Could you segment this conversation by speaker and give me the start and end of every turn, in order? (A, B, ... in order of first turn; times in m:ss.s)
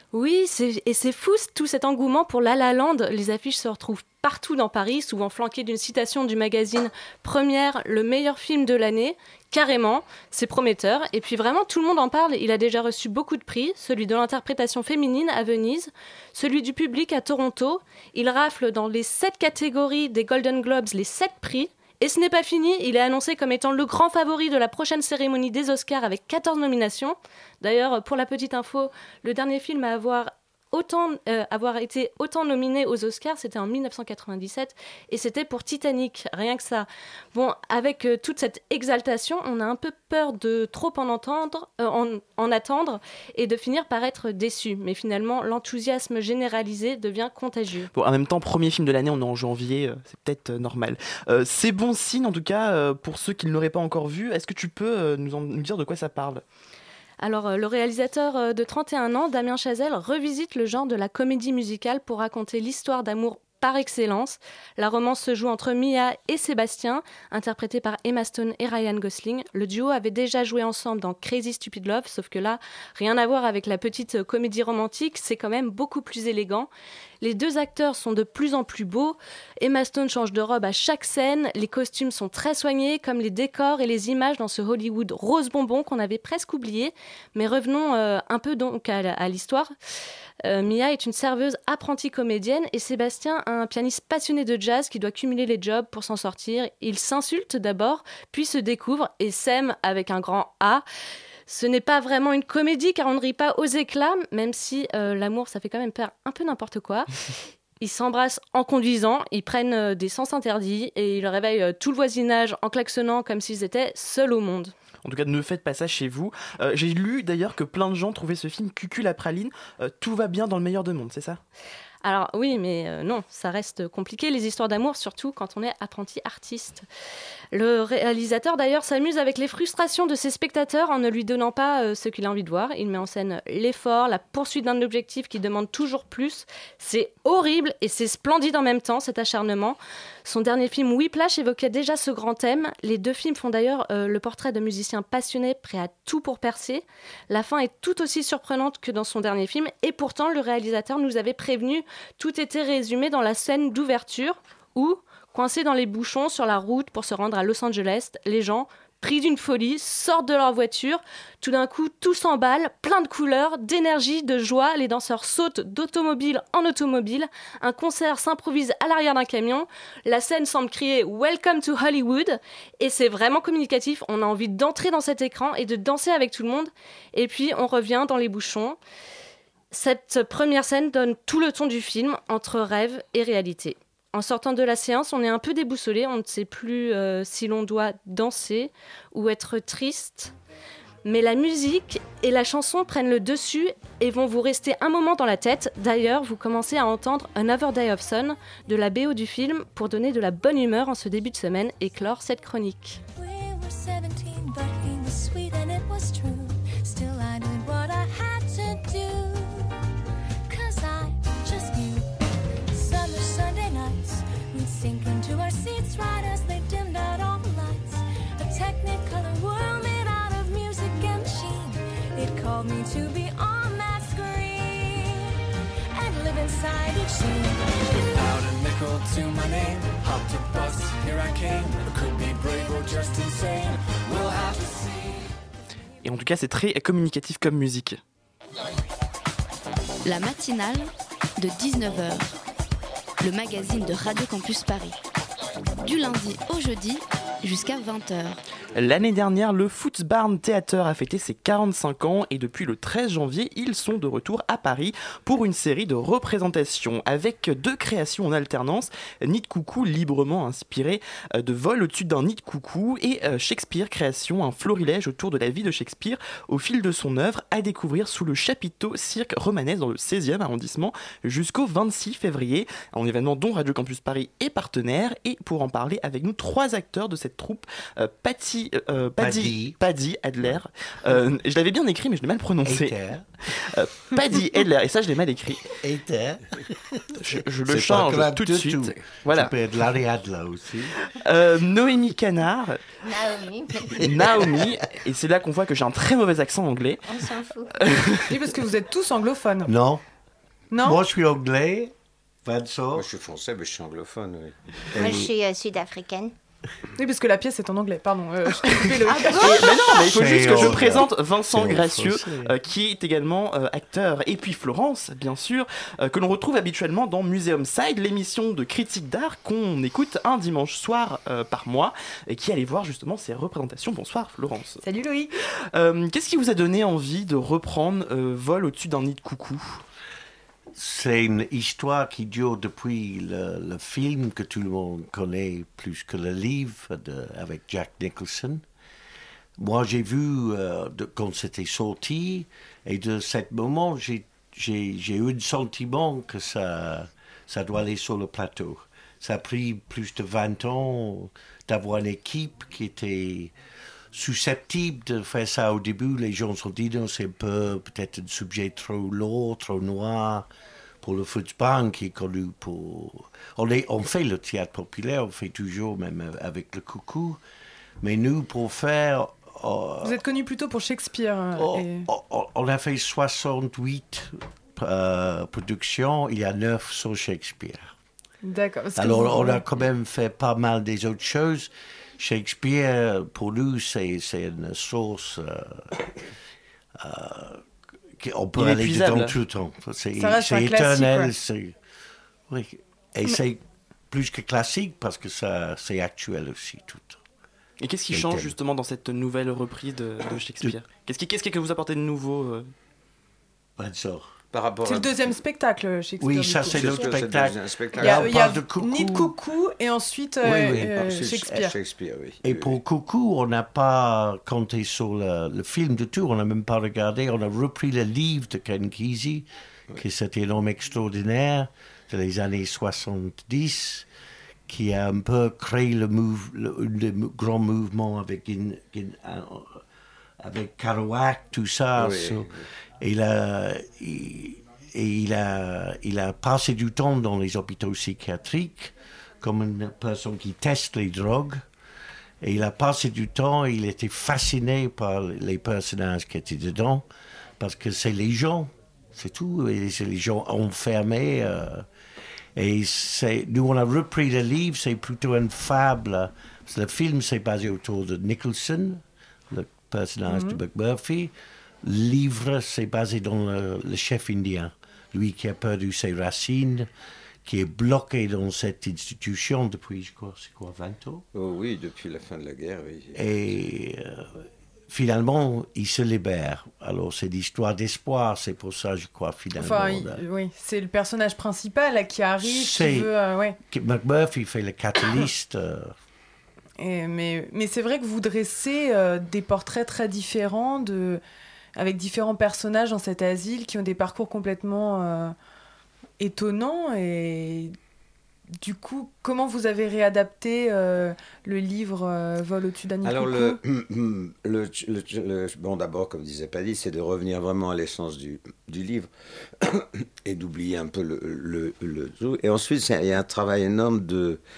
0:00.1-0:47.9 A
0:47.9-0:56.4 B
0:57.2-1:16.7 A
1:17.2-1:29.7 A
1:30.4-1:40.8 A
1:41.5-1:47.1 A
1:47.8-1:54.7 A
1:55.0-2:01.4 B
2:02.0-2:06.8 A
2:07.5-2:58.8 A
2:59.7-3:10.3 A
3:11.0-3:23.0 A
3:23.2-3:29.7 C
3:30.5-3:45.2 C
3:45.9-3:47.7 C
3:48.1-3:55.3 D
3:56.0-3:58.0 B
4:00.0-4:02.4 E
4:03.2-4:05.0 E
4:05.8-4:08.4 E
4:08.7-4:42.9 B
4:39.2-4:39.8 F
4:42.6-4:43.2 F
4:43.5-4:45.6 B
4:45.8-4:47.0 F
4:47.2-4:49.5 B
4:47.6-4:50.9 F
4:51.1-4:52.8 B
4:53.0-4:54.0 G
4:54.0-4:57.0 B
4:57.0-4:57.9 G
4:57.8-4:58.2 B
4:58.3-4:59.7 H
4:59.6-5:00.0 F
5:00.7-5:01.0 H
5:00.8-5:01.9 F
5:02.4-5:03.1 F
5:02.9-5:04.6 I
5:04.9-5:05.3 F
5:05.0-5:06.3 G
5:07.0-5:09.6 H
5:09.2-5:24.8 B
5:10.0-5:12.5 F
5:24.8-5:25.3 H
5:25.7-5:29.8 B
5:30.8-5:38.6 F
5:39.6-5:53.5 F
5:54.1-6:00.5 F
6:01.0-6:07.4 F
6:08.0-6:10.2 F
6:10.0-6:12.0 H
6:11.5-6:17.9 F
6:18.4-6:19.6 H
6:19.0-6:26.0 F
6:27.0-6:27.6 F
6:28.2-6:31.7 F
6:28.6-6:29.3 B
6:30.2-6:31.3 H
6:32.5-6:37.2 F
6:37.8-6:42.7 B
6:38.1-6:38.5 F
6:43.8-6:44.4 F
6:44.5-6:45.3 I
6:44.8-6:47.0 H
6:46.2-6:49.3 F
6:46.7-6:48.3 I
6:48.0-6:51.7 H
6:50.4-6:51.0 F
6:50.9-6:52.8 I
6:52.4-7:04.0 F
7:04.7-7:09.8 F
7:10.4-7:12.5 F
7:12.0-7:12.4 I
7:13.0-7:21.6 F
7:22.4-7:27.0 F
7:27.6-7:31.8 F
7:32.6-7:41.3 F
7:40.3-7:40.6 H
7:41.8-7:46.9 F
7:47.4-7:51.2 F
7:51.3-7:53.2 I
7:53.1-8:00.2 F
7:59.5-8:03.6 H
8:02.4-8:03.1 F
8:03.7-8:05.9 F
8:06.8-8:11.2 H
8:11.8-8:15.3 H
8:16.2-8:17.7 H
8:18.6-8:23.6 H
8:23.0-8:29.1 I
8:29.6-8:34.4 I